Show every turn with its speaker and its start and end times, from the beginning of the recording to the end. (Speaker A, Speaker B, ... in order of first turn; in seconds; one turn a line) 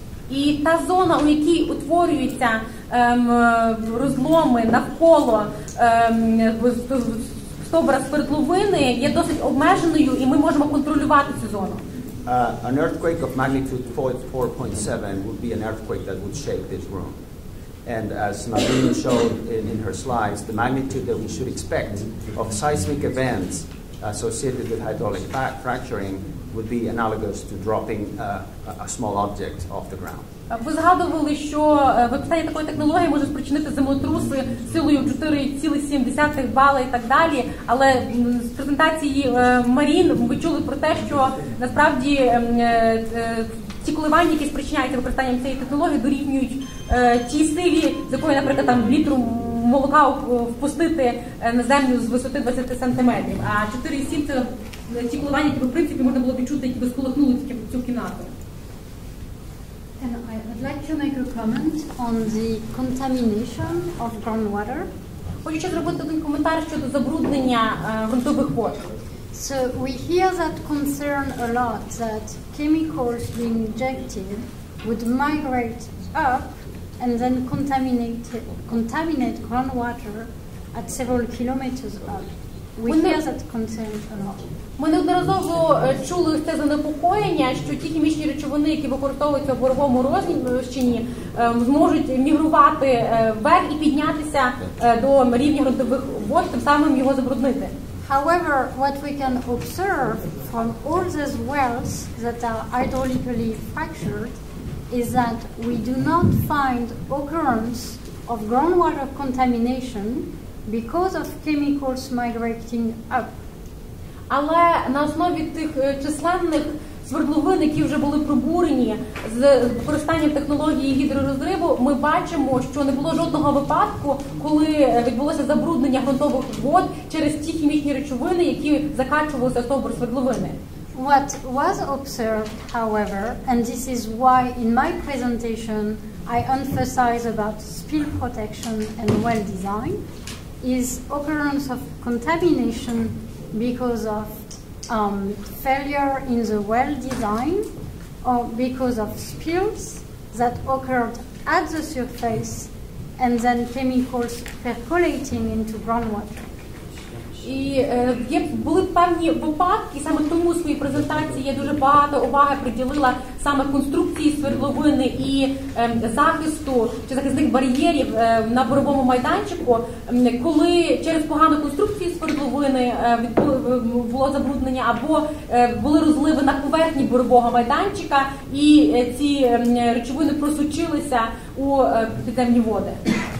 Speaker A: 0.3-11.8
Speaker B: 12.2-17.2
Speaker B: 17.9-30.2
Speaker A: 30.5-58.3
Speaker C: 60.0-64.9
Speaker A: 65.4-68.9
Speaker C: 69.3-84.5
Speaker A: 82.9-83.2
Speaker A: 84.8-97.7
Speaker C: 98.0-104.4
Speaker C: 104.9-113.3
Speaker A: 114.3-130.6
Speaker C: 130.9-140.0
Speaker C: 140.6-147.6
Speaker C: 148.2-156.4
Speaker A: 157.4-183.0